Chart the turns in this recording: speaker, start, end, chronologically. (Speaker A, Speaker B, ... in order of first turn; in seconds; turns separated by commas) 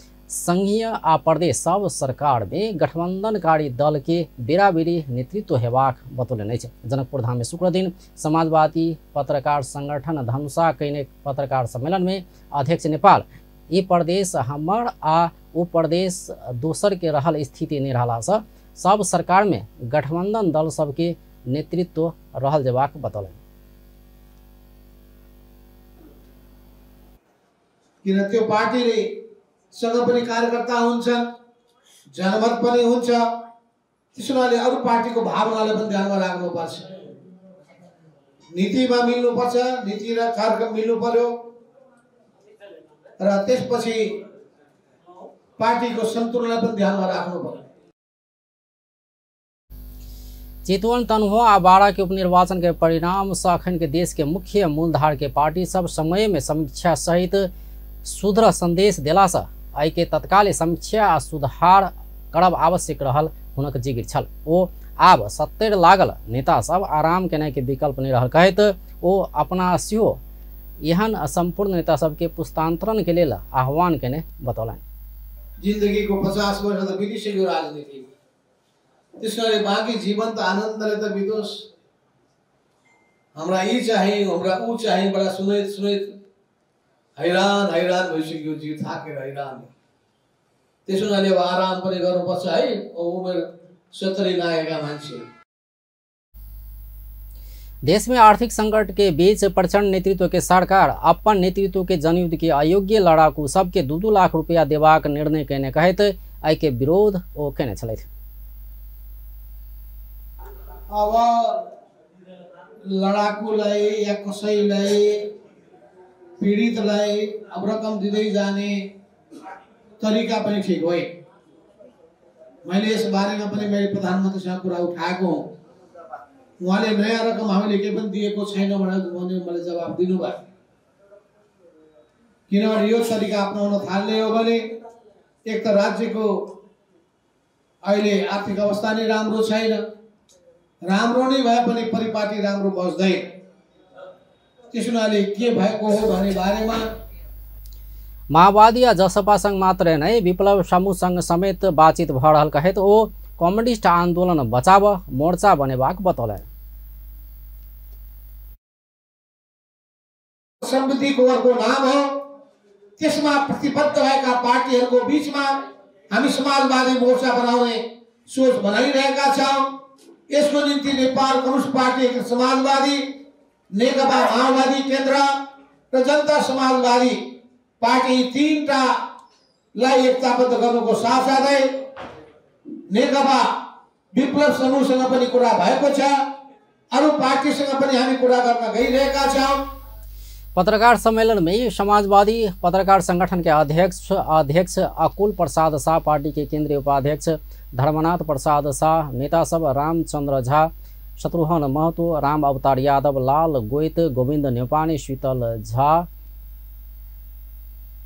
Speaker A: 0.3-23.4, Speaker B: 28.0-29.0, Speaker B: 29.7-31.2, Speaker B: 32.1-33.2, Speaker B: 34.1-37.0, Speaker B: 38.5-41.3, Speaker B: 43.2-44.0, Speaker B: 45.6-47.6, Speaker A: 50.6-57.5, Speaker A: 58.0-70.2, Speaker A: 70.8-74.8, Speaker B: 75.6-78.1, Speaker B: 79.2-81.6, Speaker B: 83.4-86.2, Speaker B: 87.2-89.7, Speaker B: 90.9-95.2, Speaker A: 97.9-108.1, Speaker B: 110.9-111.6, Speaker B: 112.9-115.2, Speaker B: 116.4-118.8, Speaker B: 120.0-121.1, Speaker B: 122.7-125.4, Speaker B: 126.6-130.4, Speaker B: 132.5-134.6, Speaker B: 135.5-136.3, Speaker B: 137.8-139.8, Speaker B: 140.9-143.2, Speaker B: 144.7-146.8, Speaker A: 148.3-156.5, Speaker B: 160.6-162.1, Speaker B: 163.0-165.6, Speaker B: 166.1-169.7, Speaker B: 170.3-173.0, Speaker B: 173.7-175.3, Speaker B: 175.9-177.2, Speaker B: 177.8-178.9, Speaker B: 179.8-181.7, Speaker B: 182.9-183.5, Speaker B: 184.1-186.2, Speaker B: 186.9-189.6, Speaker A: 190.6-206.1